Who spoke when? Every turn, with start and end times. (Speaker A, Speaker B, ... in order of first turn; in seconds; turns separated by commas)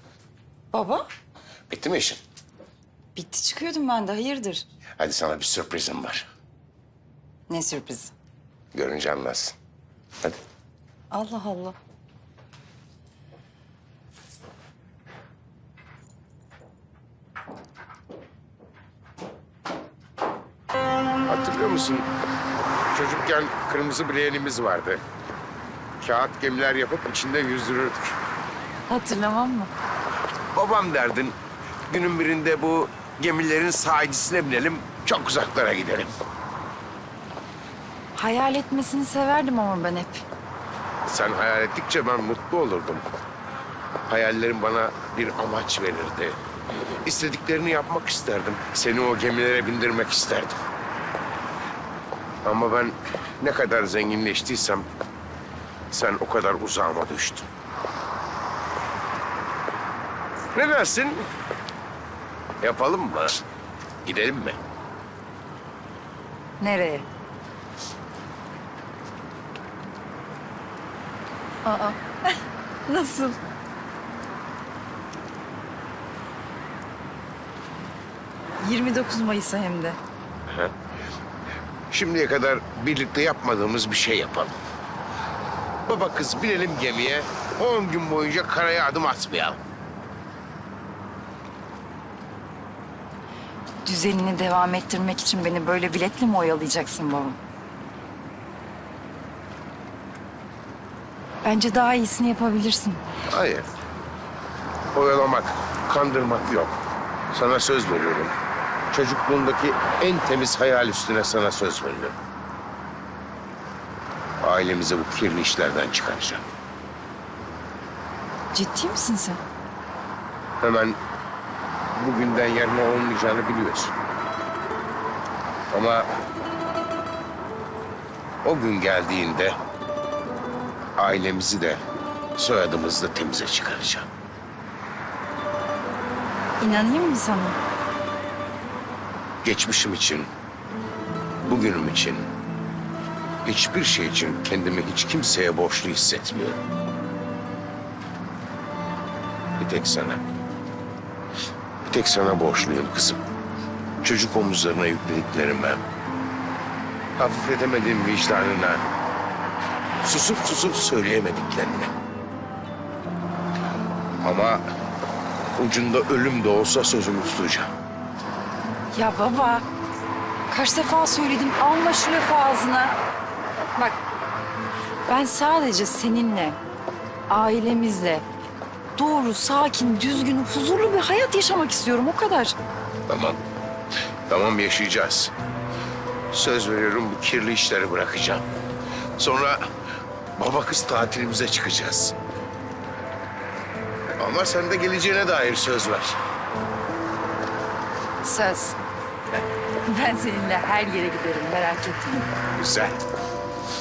Speaker A: 0.7-1.1, Speaker B: 1.7-2.2, Speaker A: 3.1-4.7, Speaker B: 5.0-6.3, Speaker A: 7.5-8.1, Speaker B: 8.7-9.6, Speaker A: 11.1-11.8, Speaker B: 21.3-22.1, Speaker B: 22.9-25.0, Speaker B: 26.0-28.2, Speaker A: 28.9-29.7, Speaker B: 30.5-31.4, Speaker B: 31.9-36.1, Speaker A: 38.1-40.3, Speaker B: 41.1-43.0, Speaker B: 44.1-46.4, Speaker B: 47.0-50.6, Speaker B: 52.4-54.9, Speaker B: 55.9-57.5, Speaker B: 60.5-61.3, Speaker B: 62.6-63.4, Speaker B: 64.0-64.6, Speaker A: 66.6-67.1, Speaker A: 71.6-73.4, Speaker A: 78.6-80.0, Speaker B: 80.5-80.7, Speaker B: 81.9-84.6, Speaker B: 85.9-89.6, Speaker A: 93.8-97.4, Speaker A: 101.4-103.0, Speaker B: 103.3-103.7, Speaker B: 104.9-106.8, Speaker B: 107.3-108.3, Speaker B: 108.9-112.2, Speaker B: 114.4-116.4, Speaker A: 118.5-119.4, Speaker B: 120.6-121.0, Speaker B: 122.0-124.0, Speaker B: 125.7-126.1, Speaker B: 128.4-129.6, Speaker B: 131.0-131.8, Speaker B: 132.4-134.1, Speaker A: 136.6-137.6, Speaker B: 139.4-140.3, Speaker B: 141.4-142.3, Speaker B: 143.4-146.6, Speaker B: 149.6-150.2, Speaker B: 151.9-153.2, Speaker B: 154.0-155.8, Speaker B: 157.2-158.8, Speaker B: 160.0-161.9, Speaker B: 164.2-164.6, Speaker B: 165.6-167.7, Speaker A: 168.9-169.7, Speaker A: 170.5-173.0, Speaker A: 175.1-176.6, Speaker A: 177.3-178.3, Speaker A: 179.0-182.6, Speaker B: 183.1-183.4, Speaker B: 184.3-185.3, Speaker B: 186.3-188.5, Speaker B: 189.2-189.7, Speaker B: 190.4-192.2, Speaker B: 194.2-196.2, Speaker A: 198.2-198.8, Speaker A: 199.8-202.3, Speaker B: 202.6-203.0